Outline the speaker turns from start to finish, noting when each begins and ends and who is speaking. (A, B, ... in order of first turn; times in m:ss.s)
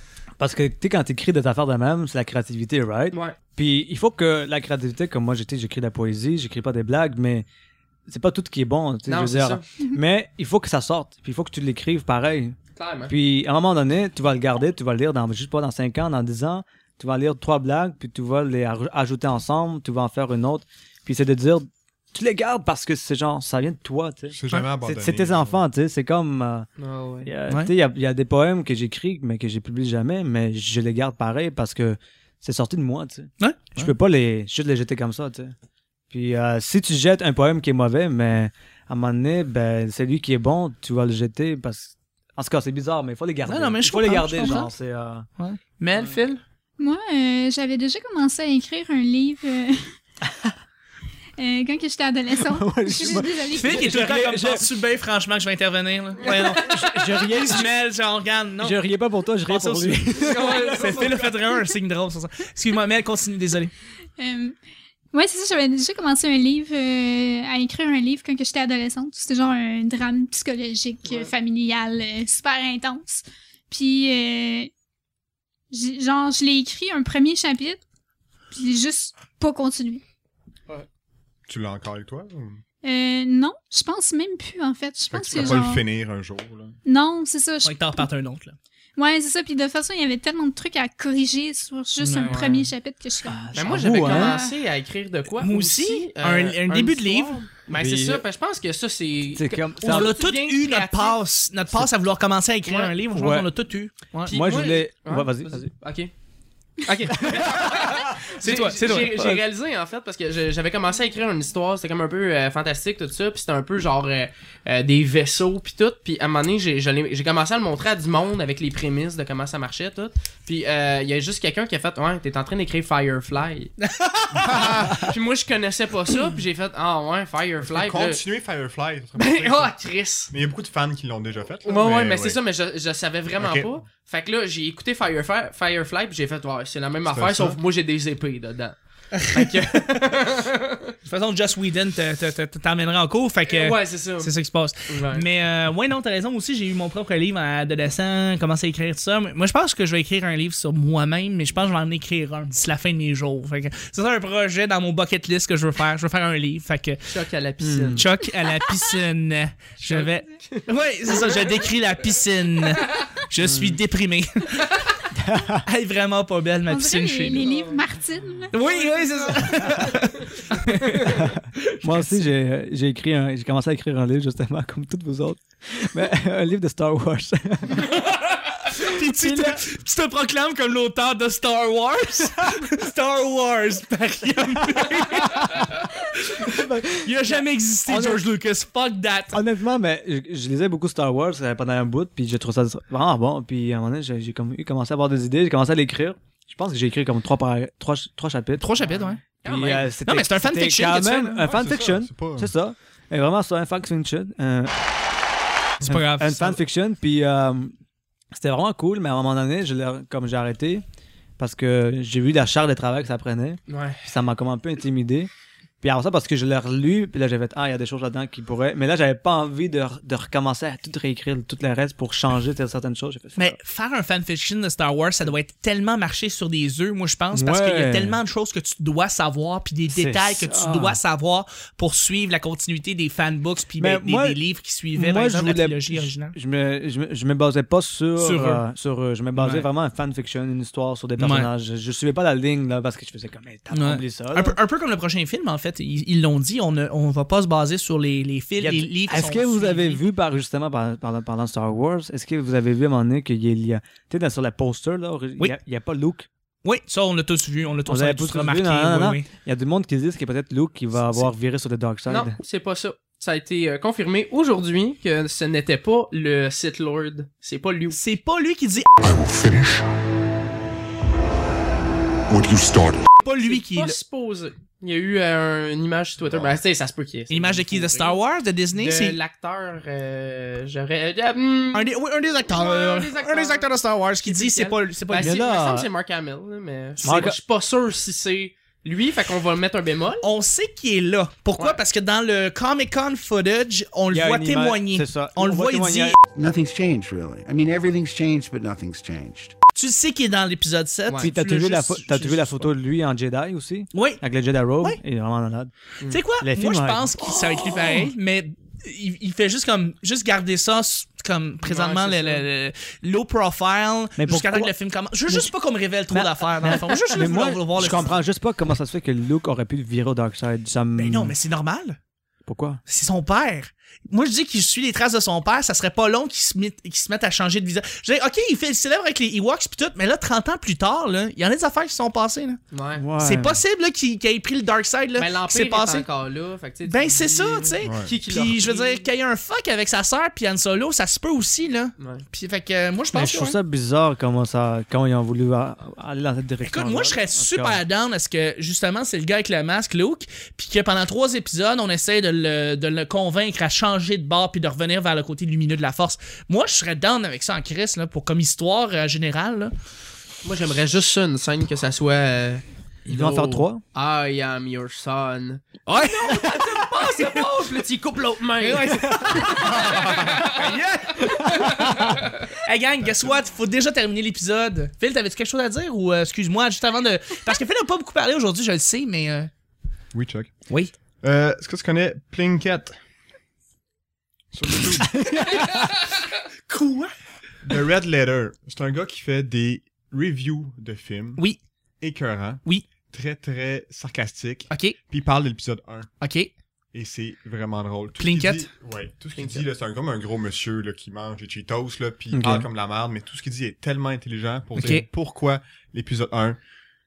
0:00.4-0:07.5 A
0:08.1-0:12.6 A
0:09.1-0:09.6 B
0:12.8-0:13.1 B
0:13.1-0:26.7 A
0:24.3-0:25.6 C
0:26.8-0:27.3 B
0:27.2-0:35.5 A
0:33.4-0:33.9 D
0:36.1-0:45.3 A
0:43.5-0:44.7 D
0:45.4-0:46.4 D
0:46.8-0:49.9 E
0:51.4-0:53.9 E
0:52.3-0:54.7 A
0:53.5-0:58.8 D
0:56.4-0:57.7 A
0:58.6-1:01.0 A
0:59.5-1:03.7 D
1:00.2-1:01.3 B
1:04.2-1:04.6 E
1:05.1-1:14.7 E
1:11.0-1:11.3 B
1:15.7-1:17.8 E
1:18.5-1:20.0 E
1:21.5-1:22.6 C
1:22.8-1:25.8 E
1:25.1-1:26.8 C
1:26.9-1:28.1 E
1:27.6-1:28.6 D
1:29.0-1:34.5 E
1:32.0-1:32.5 D
1:32.2-1:32.7 B
1:33.2-1:34.4 A
1:33.5-1:41.2 B
1:35.4-1:37.4 D
1:37.7-1:38.2 A
1:39.3-1:40.2 A
1:39.8-1:44.4 D
1:42.7-1:42.9 B
1:43.1-1:43.5 A
1:44.2-1:45.7 A
1:44.3-1:46.1 B
1:46.8-2:03.8 B
1:47.2-1:47.6 A
1:48.3-1:49.2 D
1:49.1-1:49.4 A
2:03.8-2:04.7 D
2:04.3-2:05.1 C
2:04.9-2:08.2 B
2:07.6-2:09.8 C
2:09.2-2:10.3 B
2:10.3-2:12.4 C
2:11.6-2:20.9 B
2:13.4-2:13.7 C
2:17.1-2:17.6 C
2:19.2-2:19.8 D
2:21.0-2:37.1 D
2:23.5-2:24.3 B
2:24.9-2:25.2 B
2:37.1-2:38.1 B
2:37.6-2:38.0 A
2:38.0-2:44.9 D
2:39.8-2:41.5 B
2:43.4-2:43.8 A
2:45.1-2:45.6 A
2:45.6-2:47.5 D
2:46.7-2:49.4 E
2:47.4-2:47.8 B
2:48.5-2:52.2 D
2:51.0-2:57.9 A
2:57.9-3:09.4 D
2:59.0-2:59.6 A
3:04.8-3:05.6 A
3:06.3-3:08.2 A
3:09.3-3:18.7 A
3:18.6-3:19.2 D
3:18.8-3:19.9 B
3:19.4-3:24.7 A
3:20.0-3:21.5 D
3:21.4-3:22.5 C
3:25.8-3:26.6 D
3:25.8-3:27.7 A
3:28.3-3:30.8 A
3:31.4-3:35.3 A
3:33.7-3:34.0 B
3:35.8-3:43.6 A
3:43.4-3:56.4 D
3:47.3-3:48.2 A
3:49.9-3:51.0 A
3:53.8-3:54.4 A
3:55.0-4:04.6 A
3:58.2-3:58.6 D
3:59.4-3:59.7 D
4:01.2-4:01.5 D
4:03.7-4:10.0 D
4:08.6-4:16.3 A
4:16.6-4:19.2 D
4:17.8-4:22.4 A
4:21.0-4:21.3 D
4:22.1-4:28.0 B
4:27.9-4:28.9 D
4:29.0-4:29.8 F
4:32.3-4:33.0 F
4:33.2-4:34.0 D
4:33.4-4:38.2 B
4:36.2-4:36.6 C
4:37.3-4:39.2 D
4:38.7-4:42.0 B
4:41.7-4:45.4 D
4:42.5-4:50.2 B
4:45.2-4:45.9 A
4:47.0-4:47.4 A
4:50.2-4:56.2 D
4:54.1-4:56.2 A
4:56.3-4:59.5 F
4:59.8-5:02.7 D
5:01.2-5:05.7 A
5:03.9-5:04.2 D
5:06.1-5:18.2 D
5:06.4-5:08.1 A
5:11.6-5:12.4 B
5:14.2-5:14.7 A
5:15.3-5:15.5 A
5:16.1-5:21.3 A
5:17.8-5:18.2 B
5:21.0-5:22.0 D
5:22.4-5:22.8 A
5:22.8-5:32.6 D
5:32.7-5:33.0 B
5:33.0-5:33.6 A
5:33.2-5:36.1 D
5:35.2-5:39.1 B
5:36.8-5:43.6 D
5:37.8-5:38.1 C
5:42.0-5:42.2 B
5:43.1-5:47.8 A
5:46.6-5:59.7 D
6:00.4-6:10.6 B
6:03.1-6:03.8 A
6:05.9-6:07.2 D
6:08.6-6:19.5 D
6:09.6-6:10.4 C
6:11.2-6:12.2 A
6:20.1-6:20.6 C
6:21.2-6:23.0 C
6:24.5-6:25.3 C
6:25.0-6:25.8 A
6:26.7-6:27.1 D
6:27.6-6:31.4 C
6:32.0-6:36.1 C
6:34.7-6:35.0 D
6:36.2-6:36.5 D
6:36.9-6:46.6 C
6:38.2-6:38.7 D
6:39.4-6:39.7 B
6:42.3-6:42.7 A
6:44.8-6:45.0 D